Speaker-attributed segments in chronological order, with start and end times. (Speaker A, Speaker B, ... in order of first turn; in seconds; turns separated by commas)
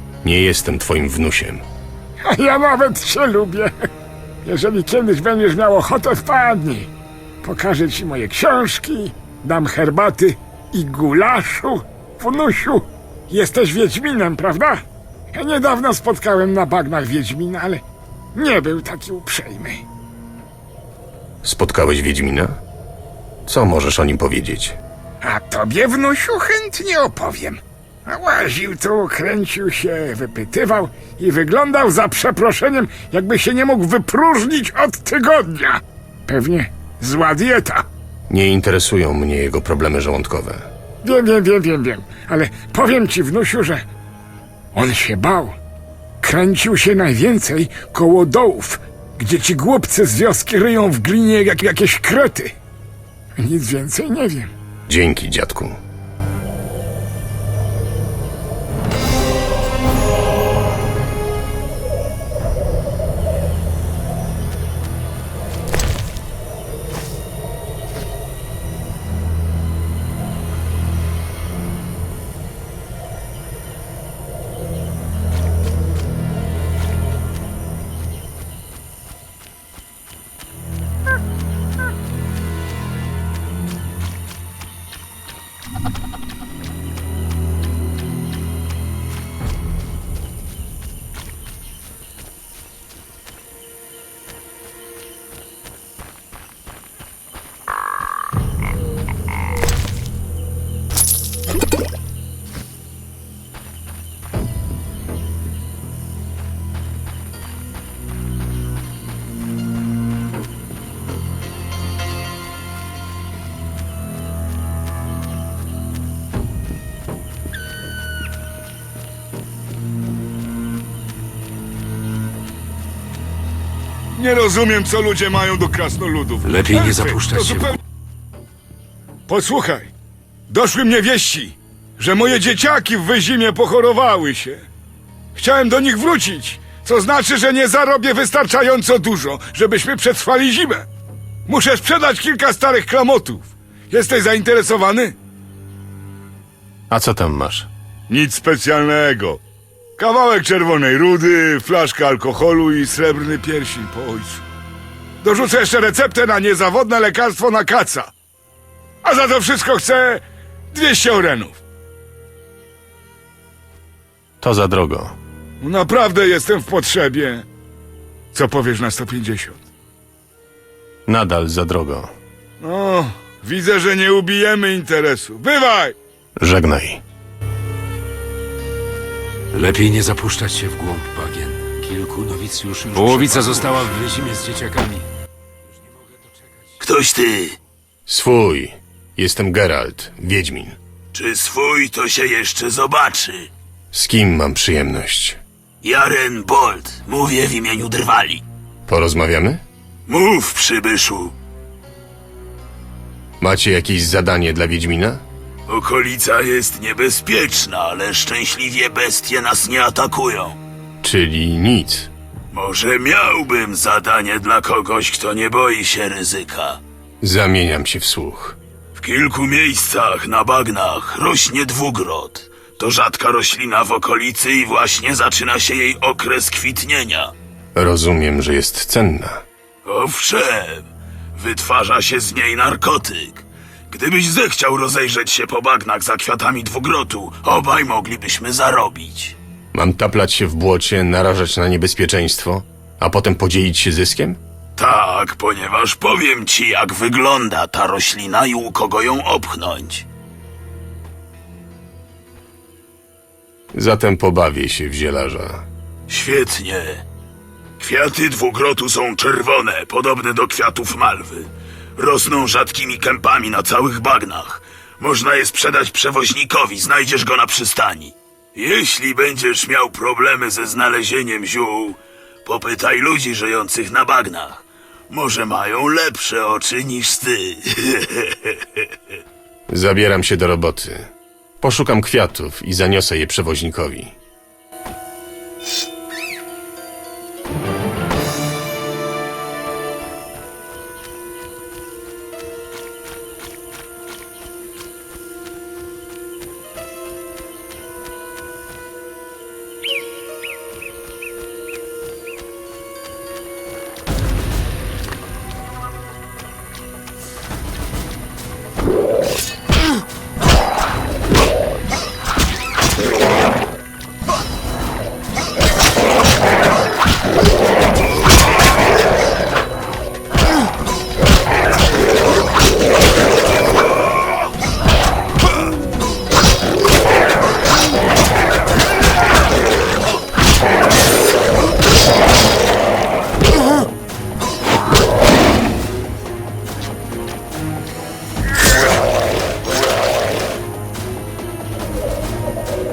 Speaker A: 0.2-1.6, Speaker B: 2.2-3.7, Speaker B: 4.4-6.9, Speaker B: 7.4-14.8, Speaker B: 15.3-17.8, Speaker B: 18.3-19.8, Speaker A: 21.4-22.6, Speaker A: 23.4-24.8, Speaker B: 25.2-37.9, Speaker A: 38.3-40.7, Speaker B: 41.0-43.8, Speaker B: 44.7-45.6, Speaker B: 46.2-52.5, Speaker B: 53.4-54.5, Speaker A: 54.9-55.8, Speaker C: 124.1-127.8, Speaker D: 126.4-127.7, Speaker C: 129.3-129.9, Speaker C: 130.5-134.7, Speaker C: 135.3-140.9, Speaker C: 141.5-145.1, Speaker A: 146.9-147.7, Speaker C: 148.1-149.4, Speaker C: 150.0-154.4, Speaker C: 155.2-158.1, Speaker C: 159.0-161.6, Speaker A: 164.4-165.1, Speaker C: 165.6-167.4, Speaker C: 168.3-169.6, Speaker A: 171.1-172.1, Speaker C: 172.6-175.9, Speaker A: 176.4-177.0, Speaker D: 179.5-185.0, Speaker E: 186.8-187.6, Speaker A: 188.1-190.8, Speaker E: 191.1-193.5, Speaker A: 193.9-195.4, Speaker E: 195.8-198.4, Speaker A: 198.9-199.6, Speaker E: 200.1-201.3, Speaker A: 203.4-205.2, Speaker E: 205.7-210.6, Speaker A: 211.0-212.1, Speaker E: 212.5-216.8, Speaker A: 217.2-218.6, Speaker E: 219.0-227.3, Speaker A: 227.7-229.4, Speaker E: 229.8-239.3, Speaker A: 239.7-244.4, Speaker E: 244.8-250.0, Speaker A: 253.7-255.6, Speaker E: 256.1-257.0, Speaker E: 257.8-278.6, Speaker A: 279.7-281.1, Speaker A: 281.6-284.1